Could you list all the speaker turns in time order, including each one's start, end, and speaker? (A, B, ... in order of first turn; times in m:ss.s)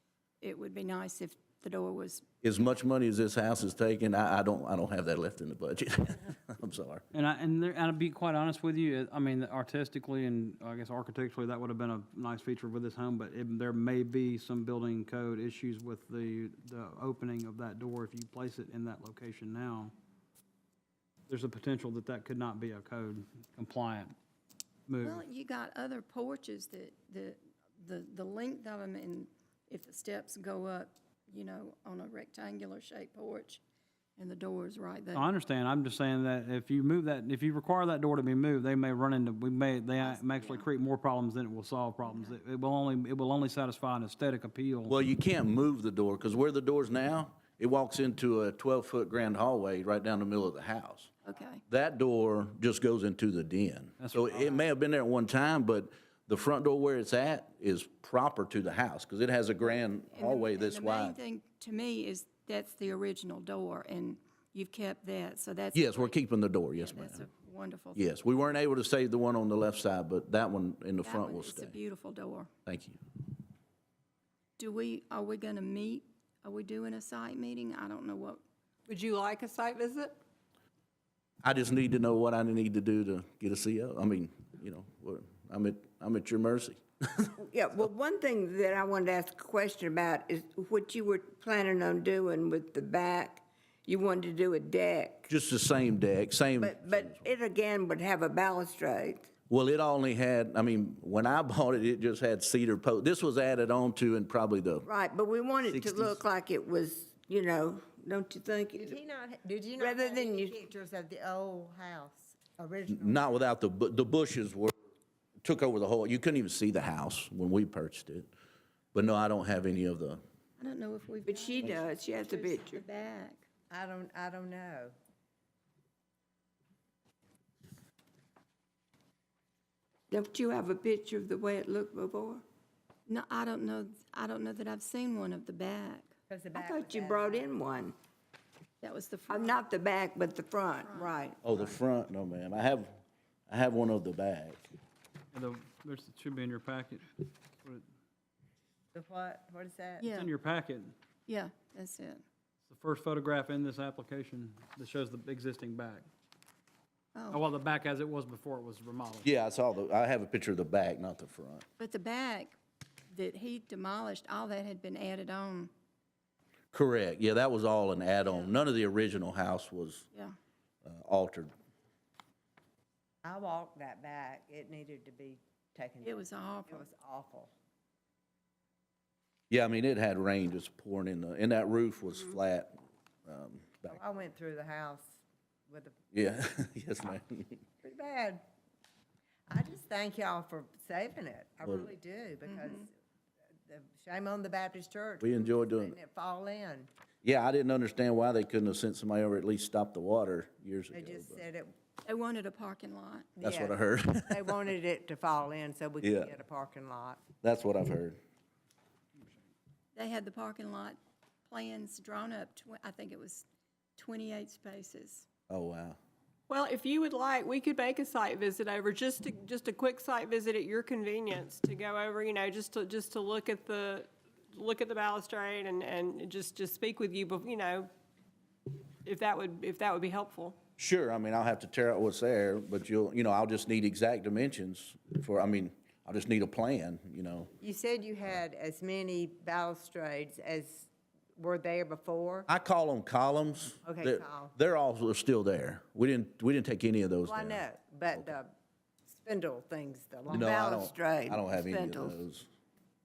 0:00.4-0:02.3 A
0:02.4-0:07.0 B
0:07.1-0:19.9 C
0:21.3-0:24.2 C
0:24.9-0:25.2 C
0:25.0-0:33.6 A
0:34.2-0:35.3 A
0:35.1-0:45.0 C
0:40.0-0:40.7 A
0:42.0-0:42.4 A
0:44.9-0:51.1 B
0:51.2-0:51.6 A
0:51.7-1:01.2 B
0:54.0-0:54.4 C
1:00.1-1:06.2 A
1:05.7-1:07.3 B
1:06.8-1:08.0 A
1:08.0-1:11.8 B
1:11.0-1:12.5 A
1:12.7-1:13.0 B
1:14.6-1:18.4 A
1:18.9-1:20.2 D
1:21.4-1:27.2 B
1:27.4-1:35.2 E
1:35.3-1:37.2 B
1:36.6-1:39.2 E
1:39.5-1:44.9 B
1:44.9-1:49.0 E
1:45.7-1:46.2 B
1:48.8-1:53.3 F
1:49.8-1:50.6 E
1:52.9-1:54.7 B
1:55.4-1:58.3 B
1:58.9-2:00.2 B
2:00.6-2:03.4 A
2:01.3-2:02.8 E
2:03.7-2:04.9 F
2:10.1-2:12.4 E
2:13.1-2:16.1 A
2:16.3-2:17.5 F
2:16.6-2:17.9 E
2:18.8-2:19.6 A
2:19.3-2:21.4 E
2:20.8-2:21.1 A
2:21.4-2:23.0 B
2:23.5-2:24.6 B
2:25.3-2:27.8 C
2:28.9-2:30.0 F
2:30.0-2:30.3 A
2:30.0-2:30.9 C
2:31.3-2:32.2 A
2:32.7-2:36.1 C
2:37.2-2:37.4 A
2:37.3-2:39.3 C
2:39.2-2:41.6 B
2:41.8-2:42.6 A
2:43.1-2:45.7 A
2:46.7-2:50.1 B
2:50.8-2:51.5 B
2:53.2-2:57.5 F
2:56.0-2:56.9 A
2:59.5-3:04.0 B
3:03.9-3:06.0 F
3:06.1-3:07.6 B
3:07.8-3:08.4 F
3:09.5-3:12.9 F
3:12.5-3:12.8 A
3:13.7-3:16.9 F
3:15.2-3:16.0 B
3:17.2-3:21.4 B
3:20.9-3:21.7 F
3:22.0-3:23.3 A
3:23.4-3:27.2 F
3:23.4-3:24.6 B
3:26.0-3:26.3 B
3:27.4-3:28.2 B
3:30.0-3:33.4 A
3:34.0-3:35.3 A
3:35.5-3:36.0 B
3:36.5-3:47.9 D
3:49.0-3:50.6 D
3:50.8-3:57.5 B
3:57.6-4:02.5 F
4:02.5-4:07.6 B
4:03.9-4:04.5 F
4:07.2-4:08.5 F
4:09.1-4:10.9 F
4:10.3-4:12.5 B
4:10.5-4:12.1 E